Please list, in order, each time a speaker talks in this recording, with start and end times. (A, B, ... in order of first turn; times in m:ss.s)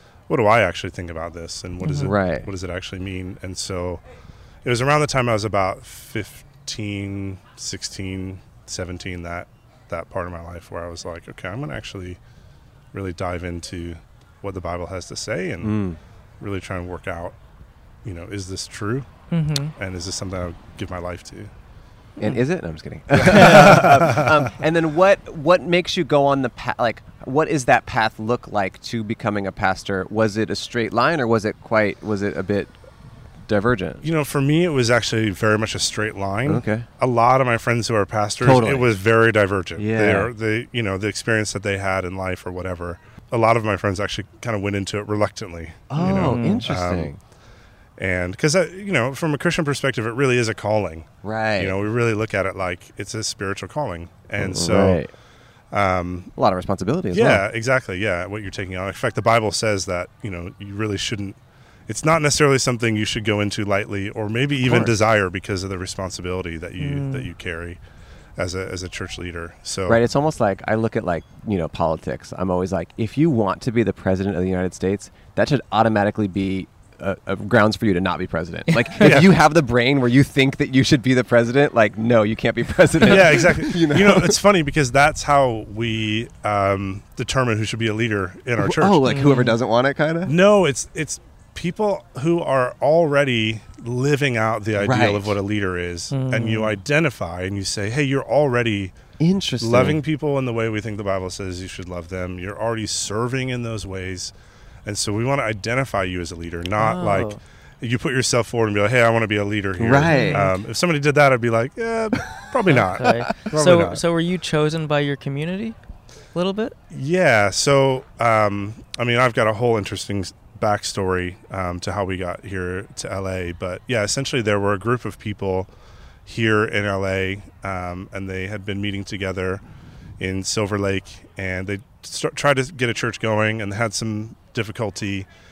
0:00.3-0:04.0 A
0:01.8-0:02.1 B
0:02.0-0:02.5 C
0:04.6-0:12.2 A
0:12.9-0:15.8 A
0:15.6-0:16.0 C
0:16.4-0:17.3 A
0:18.0-0:19.1 A
0:19.3-0:19.7 B
0:19.7-0:21.5 A
0:22.2-0:32.7 C
0:23.1-0:24.4 A
0:23.3-0:23.8 B
0:33.5-0:34.0 C
0:34.0-0:47.1 A
0:36.4-0:36.9 C
0:38.4-0:38.9 C
0:39.8-0:40.3 C
0:45.9-0:47.2 C
0:46.0-0:46.7 B
0:48.0-0:55.0 A
0:51.2-0:51.7 C
0:54.4-0:55.1 C
0:55.7-0:56.3 A
0:56.4-0:57.4 C
0:57.1-1:01.4 A
1:01.9-1:07.8 A
1:04.6-1:04.9 C
1:06.8-1:07.3 B
1:08.4-1:10.0 A
1:09.9-1:24.4 C
1:19.0-1:19.3 A
1:23.0-1:29.1 A
1:28.6-1:30.3 C
1:29.0-1:29.6 B
1:30.2-1:39.0 A
1:34.8-1:35.4 C
1:36.1-1:36.8 B
1:39.2-1:40.0 C
1:39.6-1:44.3 A
1:44.8-1:54.0 A
1:46.8-1:47.4 B
1:49.8-1:50.4 C
1:50.1-1:50.5 B
1:52.7-1:55.8 B
1:56.3-1:56.8 B
1:56.9-2:05.7 A
2:06.2-2:09.6 A
2:10.2-2:15.3 A